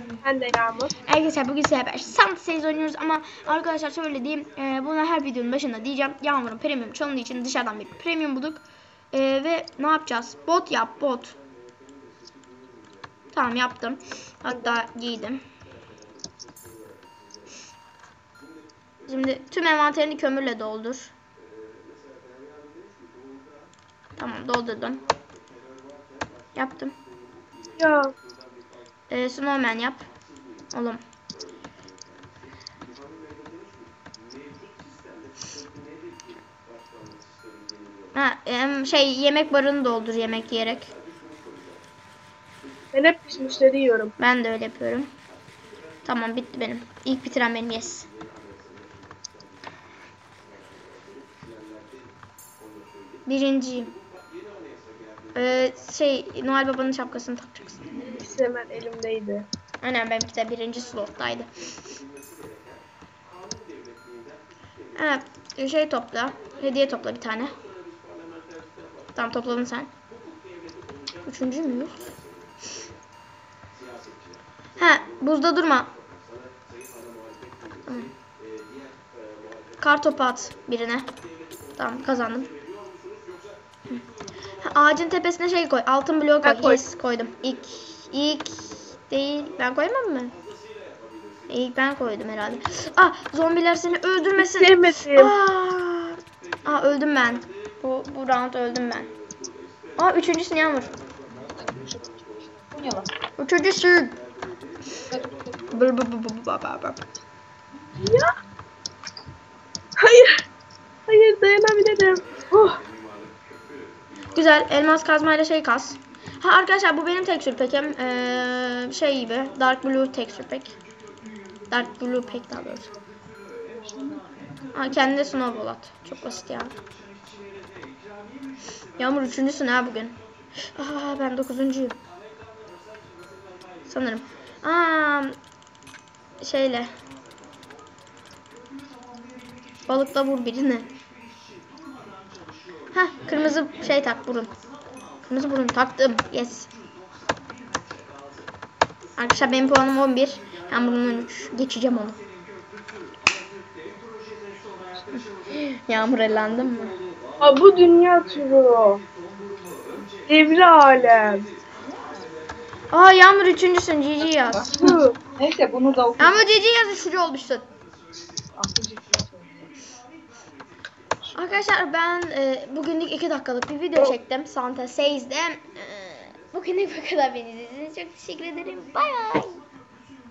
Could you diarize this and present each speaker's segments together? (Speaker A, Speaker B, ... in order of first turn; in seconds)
Speaker A: 0.2-1.0, 14.5-14.7, 27.8-28.1, 42.9-44.1, 58.0-59.5, 86.4-86.8, 94.4-95.3, 108.0-108.4, 110.0-110.4, 111.1-112.8, 157.4-159.0, 160.3-161.5, 164.7-165.2
Speaker B: 1.1-11.4, 13.3-15.4, 19.0-21.1, 24.1-25.0, 26.5-26.9, 29.1-30.1, 30.7-31.0, 38.1-40.9, 44.2-45.1, 46.0-48.1, 53.3-54.0, 55.3-57.9, 59.8-61.5, 65.0-67.6, 69.2-69.9, 71.2-72.2, 74.8-75.9, 77.9-78.1, 79.8-81.1, 81.8-82.5, 84.6-90.4, 91.5-99.1, 100.0-100.9, 103.4-104.2, 105.7-107.0, 114.3-120.8, 121.7-122.9, 124.7-126.8, 129.0-130.2, 130.7-132.0, 133.9-135.4, 136.4-136.9, 139.9-140.9, 142.9-144.5, 145.2-146.7, 149.2-152.2, 155.1-157.0, 162.9-164.8, 166.2-167.7, 171.3-179.6
Speaker C: 101.4-103.1, 105.1-105.7, 123.8-124.2, 161.8-162.2, 164.3-166.4, 168.5-169.7